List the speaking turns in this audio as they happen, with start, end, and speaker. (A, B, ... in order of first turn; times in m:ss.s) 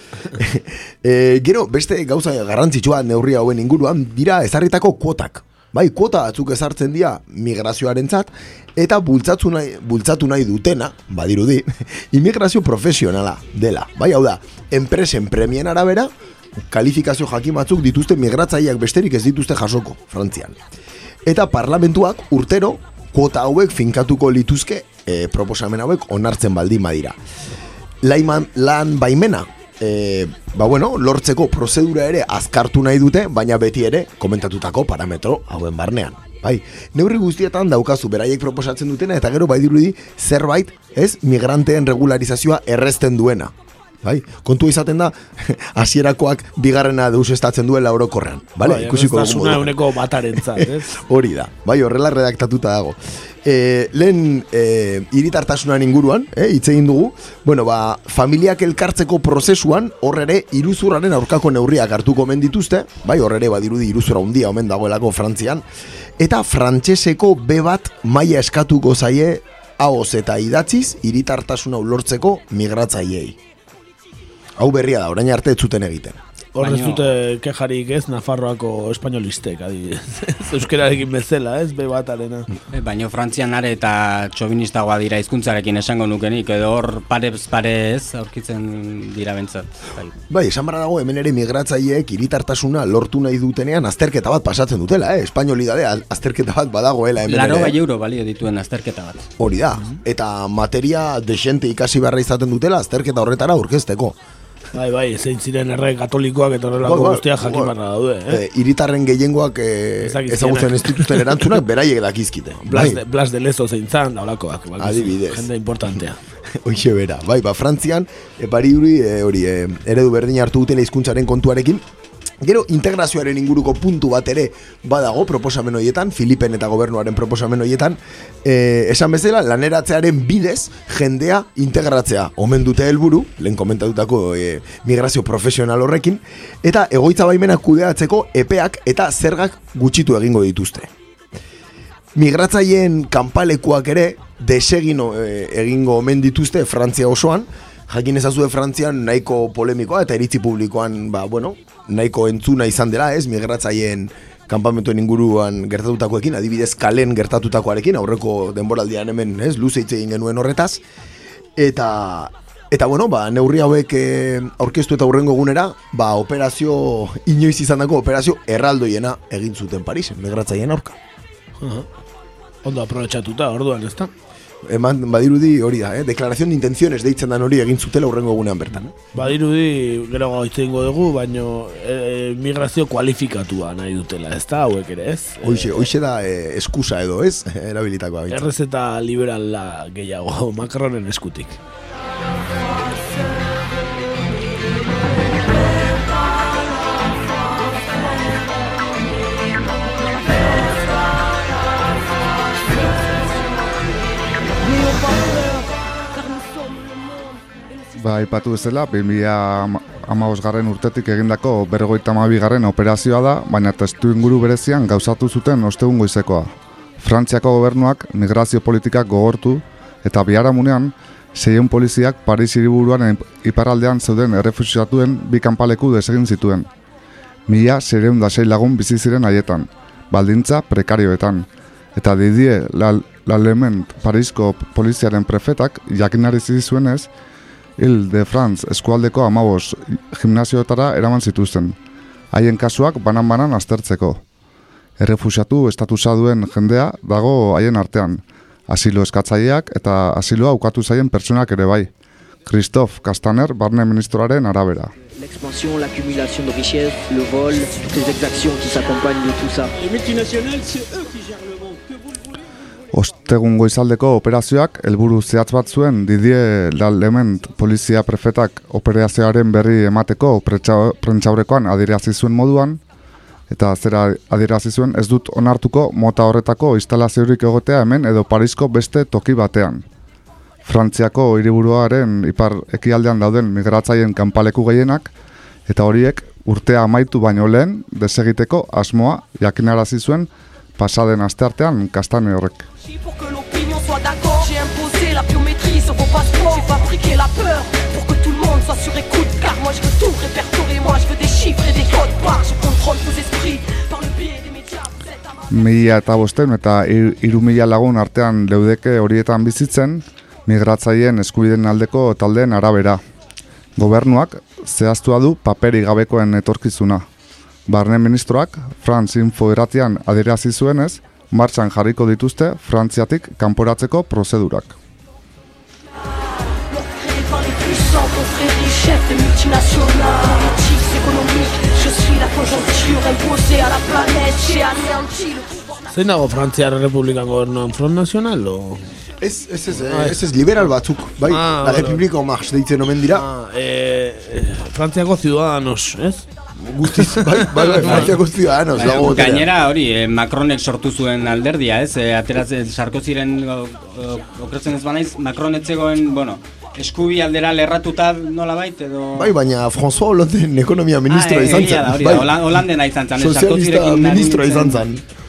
0:00.3-0:16.1 A
0:16.6-0:20.6 A
0:21.3-0:27.2 A
0:28.0-0:49.8 A
0:48.6-0:51.0 B
0:50.4-1:05.6 A
1:06.2-1:13.4 A
1:14.6-1:16.2 A
1:16.6-1:22.5 B
1:16.6-1:17.0 C
1:22.7-1:30.1 C
1:30.3-1:37.8 A
1:37.2-1:39.3 C
1:39.4-1:44.2 A
1:44.7-1:48.4 B
1:46.8-1:47.7 A
1:48.3-1:53.0 A
1:50.0-1:51.6 B
1:52.7-1:56.2 B
1:54.8-1:55.5 A
1:56.6-2:01.8 A
2:02.4-2:20.9 A
2:22.2-2:40.8 A
2:41.6-2:51.0 A
2:51.6-2:51.9 B
2:52.6-2:54.1 B
2:54.7-2:59.0 A
2:59.1-3:05.9 B
3:05.4-3:08.4 A
3:08.3-3:11.6 B
3:24.6-3:27.3 D
3:28.0-3:46.7 E
3:47.5-3:57.1 E
3:57.8-4:01.8 E
4:02.3-4:04.2 E
4:05.0-4:11.9 E
4:12.5-4:14.9 E
4:15.1-4:19.7 F
4:22.9-4:32.8 E
4:33.5-4:39.8 E
4:40.6-4:45.1 E
4:45.7-4:52.7 E
4:52.8-5:05.1 D
5:05.5-5:13.0 E
5:13.8-5:17.0 E
5:17.7-5:24.8 E
5:26.7-5:35.8 D
5:35.9-5:38.9 B
5:39.2-5:43.2 A
5:39.8-5:40.2 B
5:41.3-5:42.0 B
5:43.1-5:46.3 B
5:46.6-5:49.5 A
5:46.9-5:48.1 B
5:47.8-5:48.1 C
5:48.7-5:59.3 C
5:59.2-6:02.4 A
6:01.1-6:04.8 C
6:03.2-6:05.0 A